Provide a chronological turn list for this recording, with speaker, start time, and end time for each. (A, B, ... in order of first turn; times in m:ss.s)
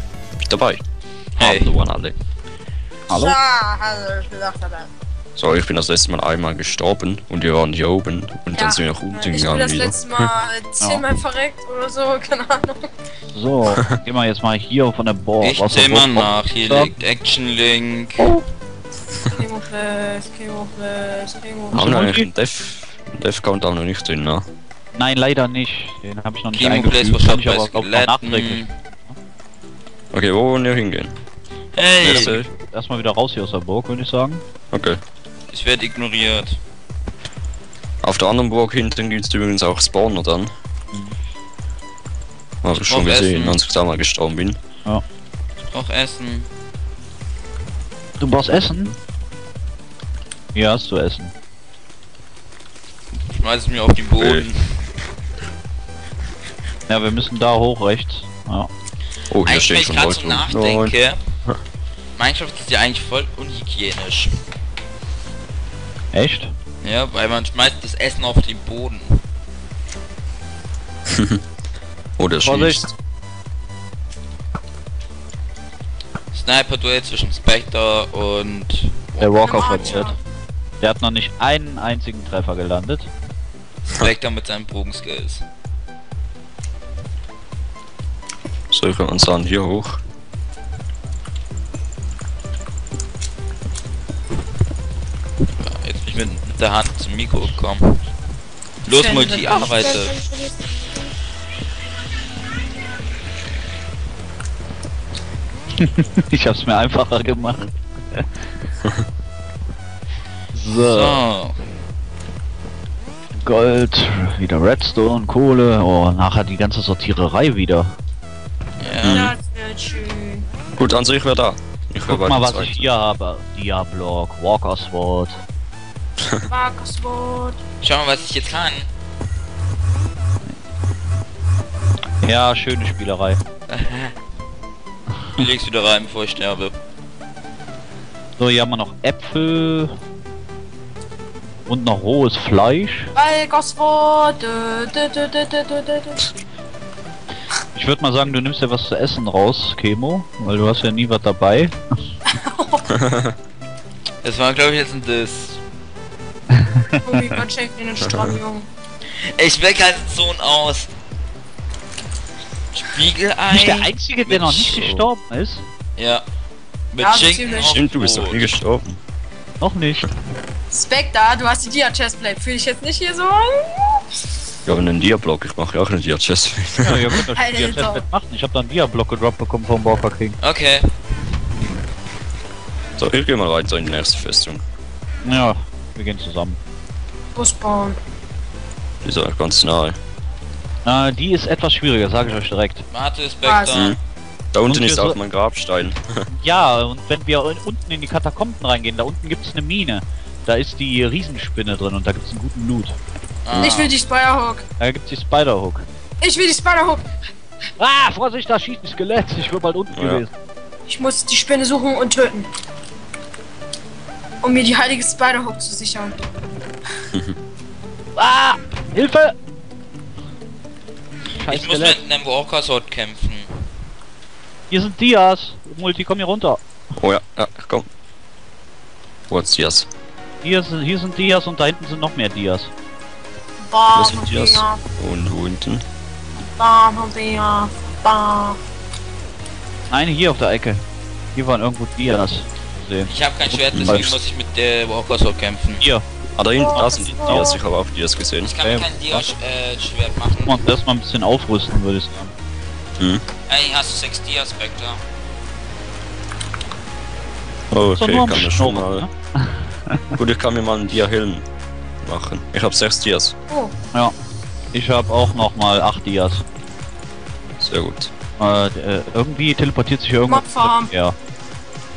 0:00.4-0:00.8 A
0:01.4-0:01.8 B
0:01.4-0:02.2 A
0:03.1-0:03.4 C
0:03.1-0:04.9 D
0:05.4-0:10.0 A
0:08.6-0:12.9 D
0:13.3-0:16.9 C
0:15.4-0:18.3 B
0:19.3-0:21.8 D
0:21.7-0:22.3 C
0:21.7-0:24.5 A
0:24.9-0:29.2 C
0:26.6-0:28.7 B
0:30.1-0:31.2 A
0:31.7-0:32.4 B
0:32.0-0:32.5 A
0:32.0-0:34.4 C
0:34.7-0:35.0 A
0:35.5-0:36.6 B
0:38.0-0:40.5 A
0:42.6-0:44.6 A
0:42.8-0:43.6 B
0:45.6-0:46.5 B
0:48.2-0:48.9 C
0:50.5-0:51.3 C
0:53.3-0:54.8 B
0:54.2-0:54.5 A
0:56.9-0:58.7 C
0:59.3-1:01.6 A
0:59.4-1:01.2 B
1:02.2-1:04.3 B
1:06.1-1:06.5 C
1:06.8-1:09.2 B
1:11.1-1:11.4 A
1:12.2-1:12.9 A
1:12.4-1:12.9 C
1:16.3-1:20.1 B
1:19.2-1:20.2 C
1:19.4-1:20.2 D
1:20.8-1:23.1 C
1:23.9-1:25.4 B
1:28.7-1:30.0 A
1:35.6-1:38.0 B
1:38.8-1:40.2 B
1:38.9-1:41.1 D
1:45.8-1:48.3 C
1:50.5-1:51.2 C
1:50.8-1:51.6 B
1:53.4-1:58.0 C
1:58.8-1:59.3 B
1:59.0-1:59.3 A
1:59.1-2:00.5 D
2:00.8-2:02.9 A
2:02.1-2:05.4 C
2:06.4-2:07.6 D
2:07.8-2:08.9 B
2:12.2-2:13.4 C
2:13.7-2:14.2 B
2:15.4-2:16.8 B
2:18.4-2:20.0 C
2:21.7-2:23.1 C
2:23.2-2:26.2 D
2:27.7-2:31.8 C
2:32.3-2:32.9 D
2:33.0-2:33.4 A
2:34.2-2:35.6 B
2:36.5-2:37.2 C
2:37.0-2:38.7 D
2:38.0-2:38.3 A
2:39.2-2:40.9 B
2:42.7-2:44.8 B
2:43.5-2:45.6 C
2:44.8-2:45.1 A
2:46.0-2:46.2 B
2:46.9-2:48.5 B
2:47.0-2:47.8 D
2:47.6-2:49.0 A
2:49.6-2:50.1 C
2:50.7-2:54.0 D
2:54.7-2:57.2 A
2:56.8-3:00.4 C
2:57.4-2:58.0 D
3:00.4-3:00.9 B
3:03.0-3:04.6 A
3:05.2-3:06.6 C
3:07.4-3:08.0 D
3:09.0-3:10.0 A
3:10.8-3:12.8 C
3:12.9-3:13.9 B
3:13.4-3:13.9 D
3:13.7-3:14.0 A
3:14.5-3:16.3 A
3:14.6-3:15.2 C
3:16.3-3:23.0 C
3:23.4-3:23.9 B
3:23.5-3:23.9 A
3:23.6-3:24.6 D
3:24.8-3:25.8 C
3:26.2-3:27.0 D
3:27.8-3:30.3 C
3:29.9-3:30.2 A
3:30.9-3:32.5 D
3:34.4-3:36.3 D
3:38.2-3:39.4 C
3:41.4-3:42.0 C
3:41.5-3:43.5 B
3:44.7-3:46.6 C
3:47.0-3:47.9 A
3:49.3-3:49.9 A
3:50.4-3:52.7 C
3:53.6-3:54.8 D
3:53.9-3:55.8 A
3:56.4-3:58.6 D
3:59.9-4:00.8 C
4:01.3-4:04.1 C
4:03.1-4:05.8 B
4:03.7-4:04.2 A
4:05.8-4:06.0 C
4:06.4-4:08.5 A
4:06.6-4:07.6 D
4:06.8-4:07.6 C
4:08.4-4:10.6 B
4:08.6-4:09.3 C
4:10.4-4:12.3 C
4:13.0-4:13.2 A
4:13.5-4:15.0 B
4:17.7-4:19.1 A
4:18.0-4:20.2 C
4:20.2-4:21.4 A
4:22.0-4:23.4 A
4:24.7-4:26.4 C
4:27.6-4:28.1 A
4:28.4-4:31.2 C
4:30.2-4:30.9 D